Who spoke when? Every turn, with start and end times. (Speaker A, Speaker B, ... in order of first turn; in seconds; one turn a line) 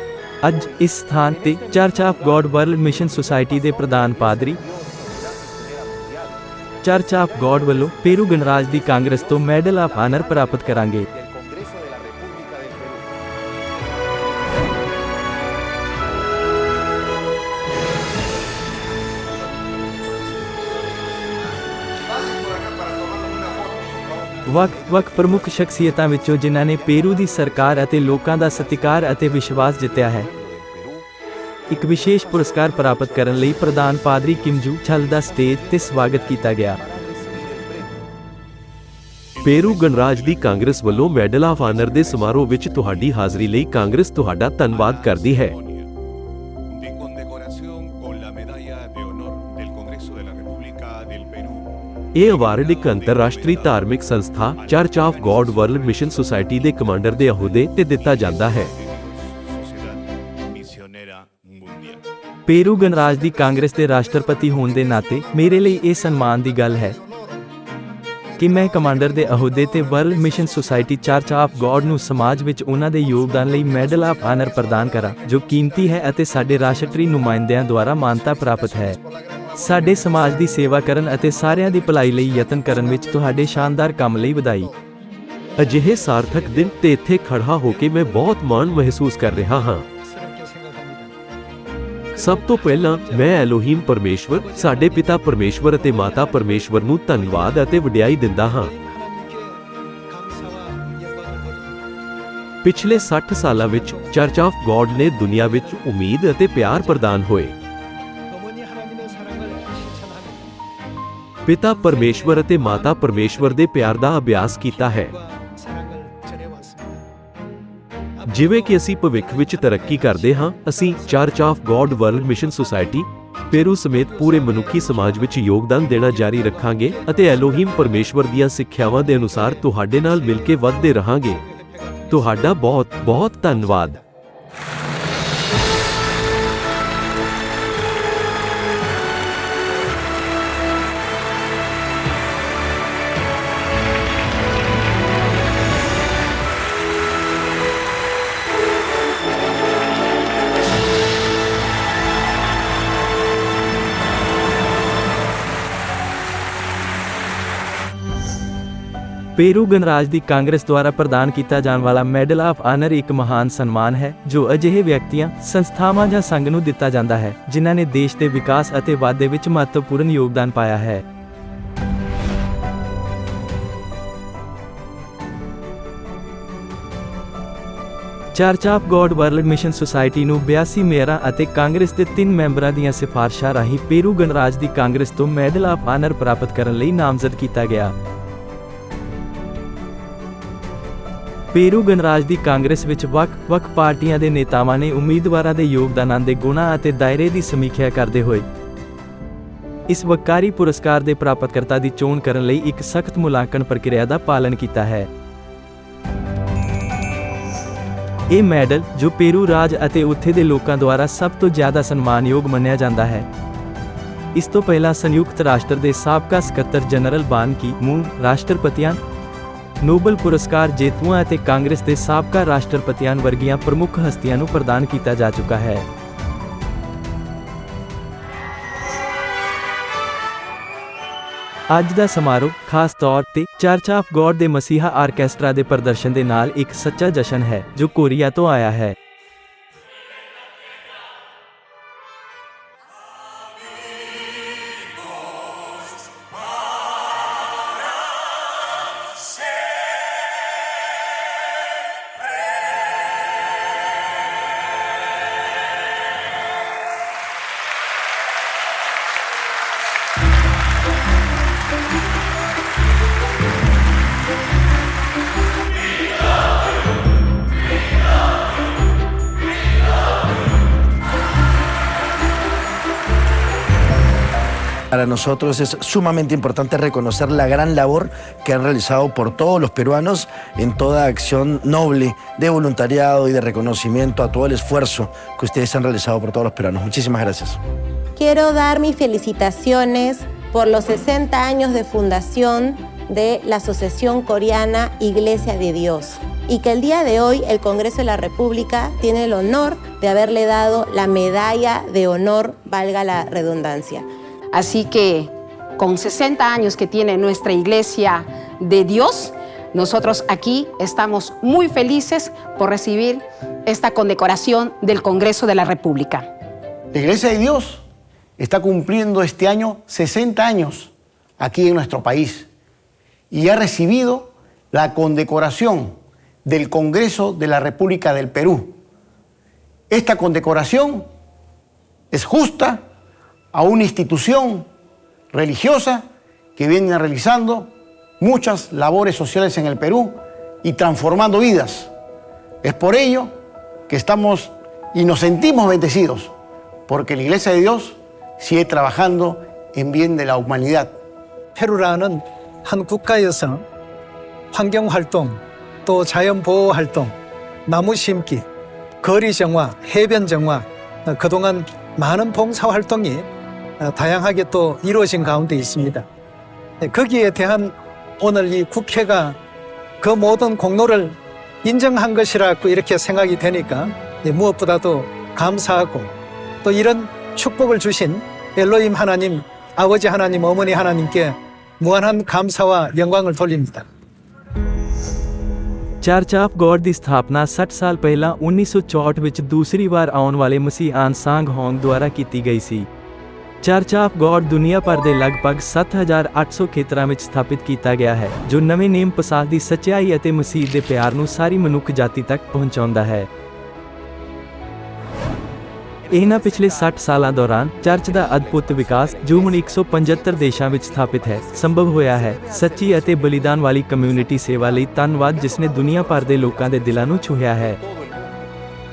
Speaker A: 0.4-4.6
Speaker A: 6.8-11.1
Speaker A: 24.4-30.3
Speaker A: 31.7-36.8
Speaker B: 39.4-45.5
Speaker B: 52.1-58.7
Speaker A: 62.5-67.0
Speaker A: 68.4-79.0
Speaker A: 79.5-84.7
Speaker B: 85.6-89.8
Speaker C: 86.1-86.7
Speaker C: 90.0-91.1
Speaker C: 92.1-93.4
Speaker B: 92.2-98.7
Speaker C: 94.3-97.7
Speaker C: 98.4-101.8
Speaker B: 102.6-107.5
Speaker C: 102.9-104.3
Speaker C: 105.2-105.8
Speaker C: 108.3-110.5
Speaker B: 111.5-115.1
Speaker C: 111.7-113.7
Speaker C: 114.5-117.0
Speaker C: 118.2-122.9
Speaker B: 118.3-131.4
Speaker C: 124.0-125.4
Speaker C: 126.0-128.1
Speaker C: 129.2-130.9
Speaker C: 131.9-132.4
Speaker B: 132.1-134.0
Speaker C: 133.5-134.0
Speaker A: 159.3-171.0
Speaker A: 178.3-187.9
Speaker A: 191.5-198.4
Speaker A: 199.9-205.1
Speaker A: 208.3-213.3
Speaker A: 214.3-219.0
Speaker A: 219.8-225.8
Speaker A: 231.7-238.9
Speaker D: 274.9-287.6
Speaker E: 288.1-304.1
Speaker F: 304.5-316.3
Speaker G: 316.9-317.8
Speaker G: 318.4-322.5
Speaker G: 323.3-328.7
Speaker G: 329.9-331.1
Speaker G: 332.1-332.8
Speaker G: 333.5-334.6
Speaker G: 335.3-336.0
Speaker G: 336.6-341.9
Speaker G: 342.6-343.3
Speaker G: 343.9-346.3
Speaker G: 346.9-350.9
Speaker C: 351.6-353.6
Speaker C: 354.5-357.1
Speaker C: 357.7-358.4
Speaker C: 359.0-363.3
Speaker C: 363.8-366.1
Speaker C: 366.8-369.4
Speaker C: 370.0-376.1
Speaker C: 376.6-383.9
Speaker A: 386.0-392.9
Speaker A: 393.6-403.3
Speaker A: 406.1-417.8